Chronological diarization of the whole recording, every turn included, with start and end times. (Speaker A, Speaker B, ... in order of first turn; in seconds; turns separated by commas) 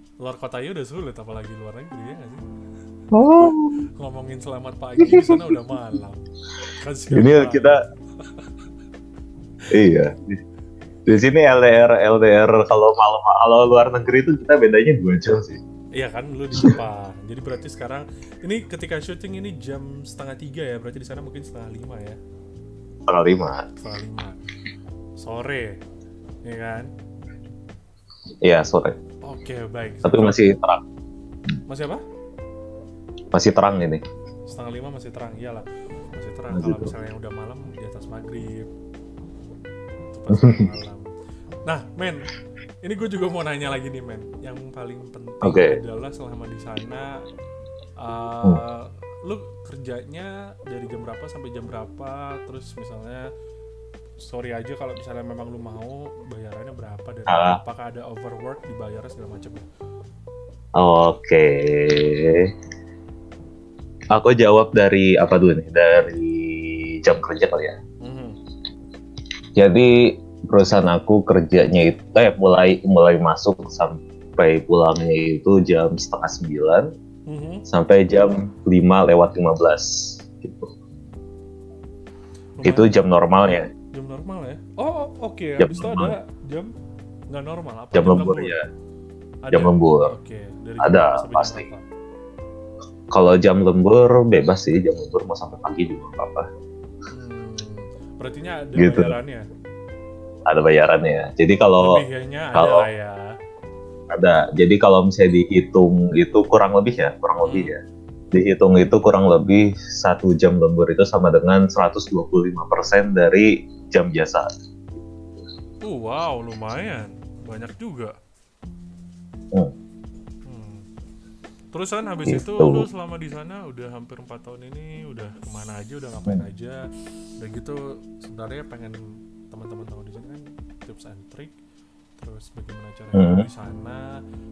Speaker A: 0.2-2.4, Speaker B: 3.1-3.8, Speaker A: 3.4-8.5, Speaker B: 5.0-5.5, Speaker B: 7.1-7.8, Speaker B: 9.7-10.4, Speaker B: 11.1-15.6, Speaker A: 15.9-22.2, Speaker B: 23.1-23.6, Speaker A: 23.8-24.4, Speaker A: 25.2-25.8, Speaker A: 26.4-26.9, Speaker B: 28.4-29.0, Speaker A: 29.2-30.5, Speaker B: 30.0-30.8, Speaker A: 31.7-32.0, Speaker B: 33.3-34.0, Speaker A: 34.5-38.6, Speaker B: 36.5-36.9, Speaker A: 40.1-41.1, Speaker B: 40.3-40.6, Speaker A: 41.6-42.3, Speaker A: 42.8-47.1, Speaker B: 45.4-45.8, Speaker A: 48.0-53.2, Speaker A: 54.2-59.6, Speaker B: 57.3-57.6, Speaker B: 60.8-62.5, Speaker B: 64.1-67.8, Speaker A: 68.0-68.4, Speaker B: 69.5-76.9, Speaker A: 77.3-77.6, Speaker B: 77.7-80.7, Speaker A: 82.6-86.7, Speaker B: 82.6-83.7, Speaker B: 85.6-86.1, Speaker A: 87.3-88.5, Speaker B: 87.9-88.6, Speaker A: 89.4-91.8, Speaker B: 89.5-90.1, Speaker B: 90.8-91.6, Speaker B: 93.1-96.5, Speaker A: 97.1-99.4, Speaker B: 98.8-99.1, Speaker B: 100.5-102.0, Speaker A: 101.8-103.3, Speaker B: 102.5-102.9, Speaker B: 104.1-107.8, Speaker A: 107.4-107.7, Speaker B: 108.3-114.5, Speaker A: 115.8-118.1, Speaker A: 120.5-120.8, Speaker A: 121.7-126.9, Speaker B: 122.2-122.9, Speaker A: 127.4-129.0, Speaker A: 129.5-131.5, Speaker A: 132.2-134.1, Speaker B: 133.1-133.5